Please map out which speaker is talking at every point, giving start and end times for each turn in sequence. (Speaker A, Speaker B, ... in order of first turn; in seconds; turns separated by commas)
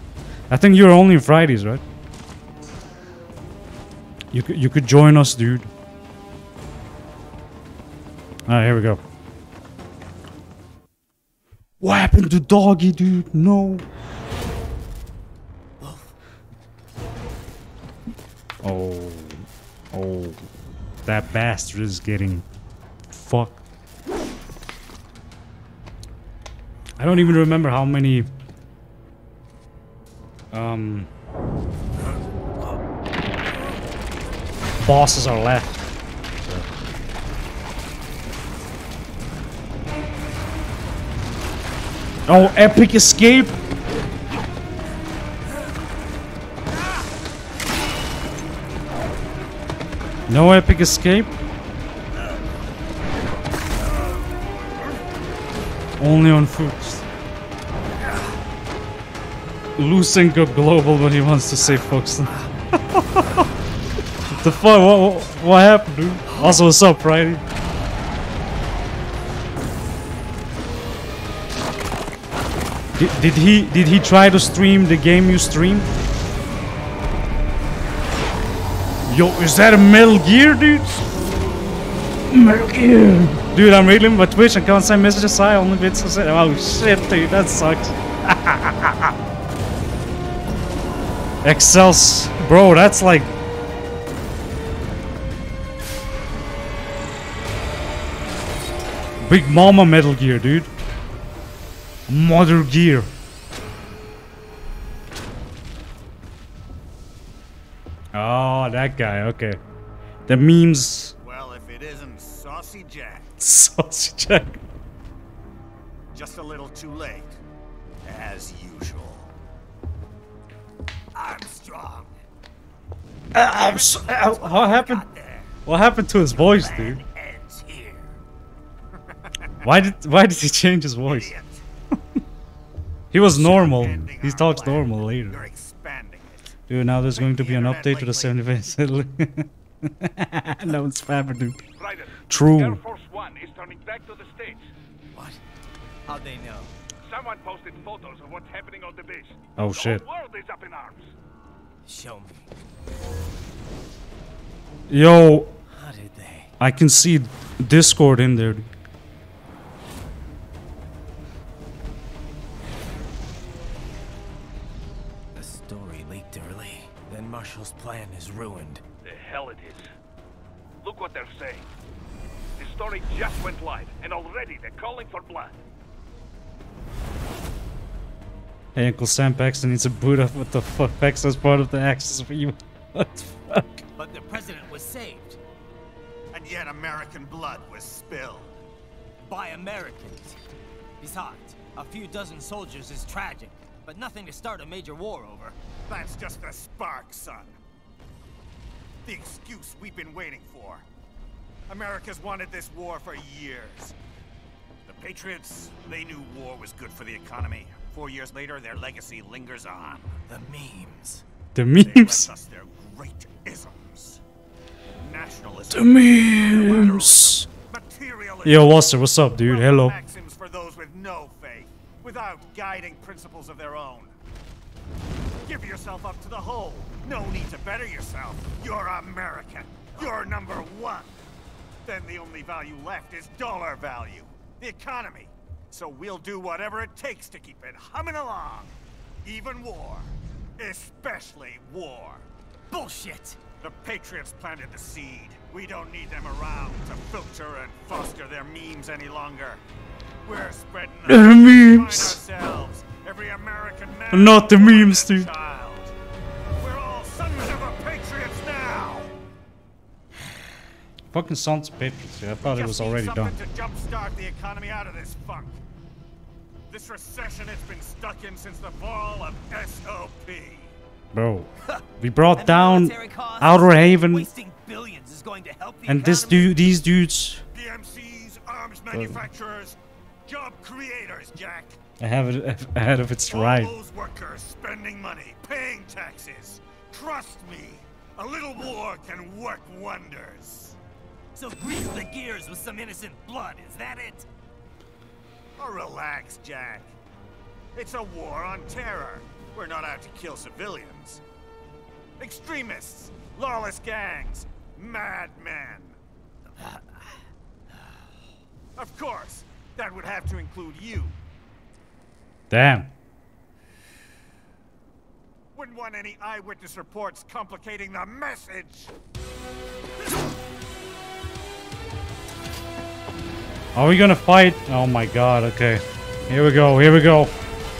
Speaker A: 0.5-1.8, Speaker A: 4.3-5.7, Speaker A: 8.5-9.0, Speaker A: 11.8-13.8, Speaker B: 15.8-16.1, Speaker A: 18.6-20.4, Speaker A: 21.1-22.4, Speaker A: 23.1-23.6, Speaker A: 27.0-28.3, Speaker A: 30.5-31.1, Speaker A: 34.8-35.8, Speaker A: 42.2-43.6, Speaker A: 50.3-51.4, Speaker A: 56.0-57.0, Speaker A: 59.8-63.5, Speaker A: 64.3-67.4, Speaker A: 73.0-75.9, Speaker A: 79.1-81.0, Speaker A: 82.3-89.1, Speaker A: 91.4-93.3, Speaker A: 99.2-100.7, Speaker A: 102.1-103.1, Speaker A: 108.1-109.6, Speaker A: 110.3-111.1, Speaker C: 111.2-113.3, Speaker A: 113.4-114.6, Speaker C: 116.1-117.4, Speaker C: 118.0-119.3, Speaker C: 121.1-122.1, Speaker A: 123.3-125.0, Speaker B: 123.6-125.5, Speaker A: 125.6-127.0, Speaker B: 126.1-128.2, Speaker A: 129.6-131.3, Speaker C: 131.0-131.6, Speaker A: 133.1-135.4, Speaker C: 133.2-136.6, Speaker A: 136.7-141.6, Speaker C: 137.1-138.3, Speaker D: 141.8-144.7, Speaker A: 142.3-142.8, Speaker B: 145.1-145.4, Speaker B: 146.1-146.7, Speaker D: 147.1-151.1, Speaker A: 149.6-150.0, Speaker B: 151.8-152.4, Speaker A: 154.9-155.5, Speaker B: 155.7-156.5, Speaker A: 156.6-158.7, Speaker B: 165.3-168.8, Speaker D: 169.0-169.9, Speaker D: 170.8-171.7, Speaker D: 172.6-175.5, Speaker A: 178.7-183.8, Speaker B: 183.9-185.4, Speaker C: 186.3-188.5, Speaker B: 189.2-190.4, Speaker B: 191.0-195.6, Speaker C: 195.9-197.6, Speaker C: 199.0-200.8, Speaker C: 201.7-203.9, Speaker C: 204.8-210.1, Speaker B: 210.3-211.2, Speaker A: 211.5-212.3, Speaker C: 211.8-214.2, Speaker C: 215.0-224.1, Speaker A: 215.7-217.5, Speaker A: 218.4-219.9, Speaker C: 225.4-231.1, Speaker C: 231.8-242.2, Speaker B: 242.7-243.4, Speaker C: 243.6-249.6, Speaker C: 250.2-255.9, Speaker A: 251.1-252.2, Speaker A: 254.1-255.3, Speaker C: 256.6-259.1, Speaker A: 261.1-263.3, Speaker C: 262.4-265.6, Speaker C: 266.7-270.7, Speaker A: 271.1-271.5, Speaker B: 271.6-276.6, Speaker A: 272.0-274.3, Speaker A: 275.9-277.4, Speaker C: 277.5-281.8, Speaker A: 278.9-279.2, Speaker A: 282.0-283.7, Speaker C: 283.3-290.8, Speaker B: 291.3-294.3, Speaker C: 295.6-296.9, Speaker C: 297.7-301.2, Speaker C: 302.2-306.0, Speaker C: 308.8-311.1, Speaker A: 312.5-312.9, Speaker C: 315.5-318.9, Speaker A: 323.7-327.3